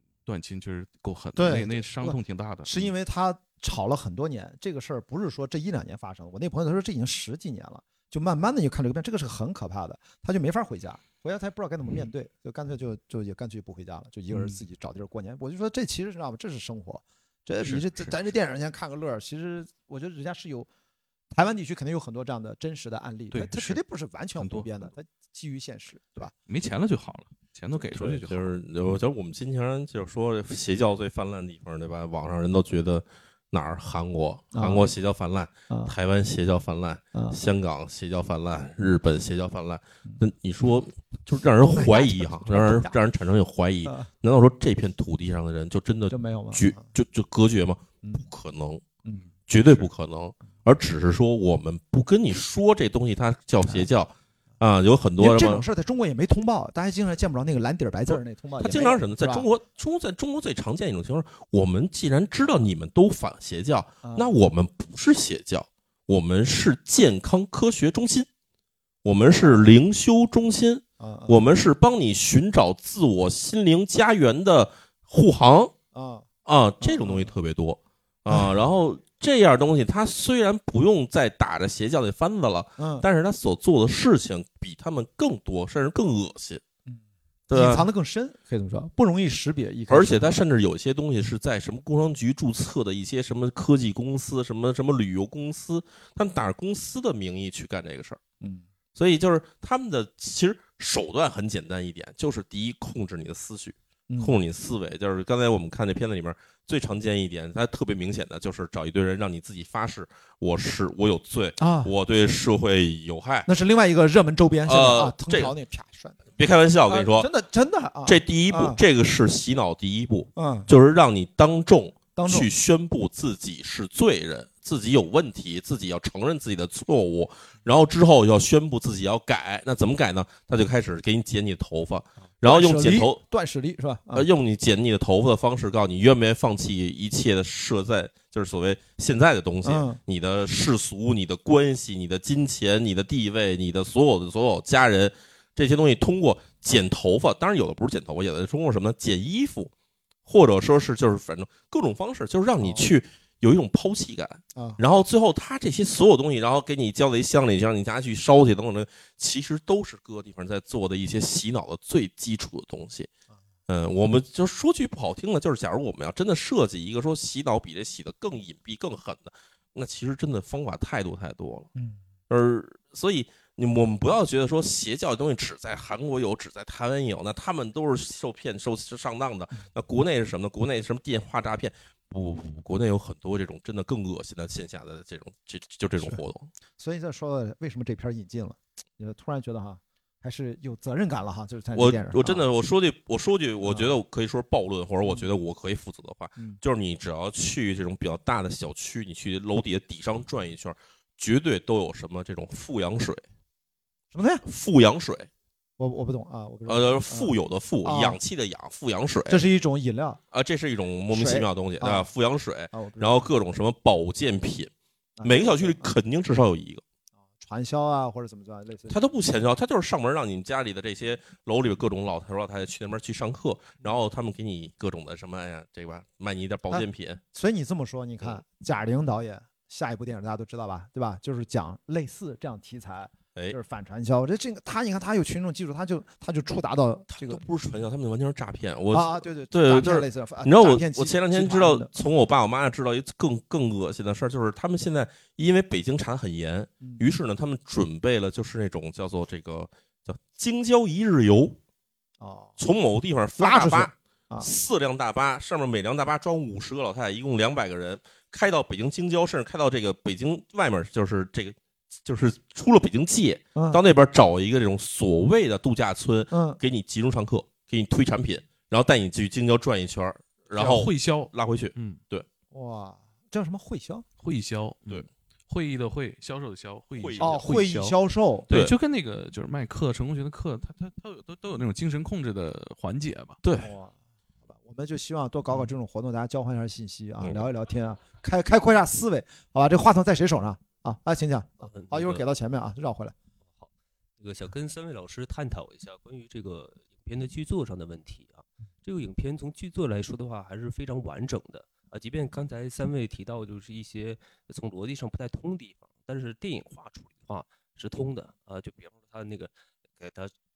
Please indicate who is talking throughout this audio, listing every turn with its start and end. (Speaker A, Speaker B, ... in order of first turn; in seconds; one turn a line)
Speaker A: 0.3-2.9
Speaker B: 1.4-20.7
Speaker A: 14.3-14.6
Speaker A: 17.6-18.1
Speaker B: 21.3-26.3
Speaker A: 23.3-23.8
Speaker A: 24.4-24.7
Speaker A: 26.5-28.6
Speaker C: 27.9-48.8
Speaker B: 34.5-34.9
Speaker B: 41.6-42.9
Speaker B: 46.1-46.9
Speaker C: 49.5-55.6
Speaker B: 55.2-59.5
Speaker C: 58.1-68.3
Speaker B: 64.0-64.3
Speaker C: 69.0-75.7
Speaker B: 71.0-71.5
Speaker B: 75.9-76.3
Speaker C: 76.5-86.6
Speaker B: 76.8-77.3
Speaker B: 82.8-83.0
Speaker C: 87.5-87.9
Speaker B: 87.5-90.4
Speaker C: 89.9-98.2
Speaker C: 99.0-113.5
Speaker B: 104.1-104.3
Speaker B: 111.6-111.9
Speaker B: 113.5-116.2
Speaker C: 114.7-115.5
Speaker C: 116.4-117.3
Speaker B: 116.9-118.8
Speaker C: 118.0-133.2
Speaker B: 120.4-120.7
Speaker B: 122.2-122.5
Speaker B: 132.4-134.3
Speaker C: 134.1-149.7
Speaker B: 139.6-140.0
Speaker C: 150.3-163.1
Speaker B: 152.6-152.9
Speaker C: 163.7-171.7
Speaker B: 171.8-172.0
Speaker C: 172.3-186.5
Speaker B: 186.8-192.5
Speaker C: 191.8-203.2
Speaker B: 193.7-193.9
Speaker B: 204.1-204.4
Speaker C: 204.4-205.3
Speaker B: 205.8-208.2
Speaker C: 206.7-209.4
Speaker B: 209.3-210.2
Speaker C: 210.3-214.7
Speaker B: 211.1-212.1
Speaker B: 212.7-213.3
Speaker B: 215.2-215.9
Speaker C: 215.2-216.8
Speaker B: 217.4-219.0
Speaker C: 218.9-227.2
Speaker B: 226.7-237.4
Speaker C: 237.1-251.6
Speaker B: 238.9-242.0
Speaker B: 252.2-252.6
Speaker C: 252.6-272.3
Speaker B: 253.4-254.5
Speaker B: 263.6-263.8
Speaker B: 266.3-266.6
Speaker A: 270.6-272.0
Speaker B: 272.5-274.1
Speaker A: 274.2-283.5
Speaker C: 277.0-277.5
Speaker B: 277.2-278.5
Speaker B: 283.6-283.9
Speaker B: 284.5-293.1
Speaker D: 291.6-292.2
Speaker D: 293.5-310.3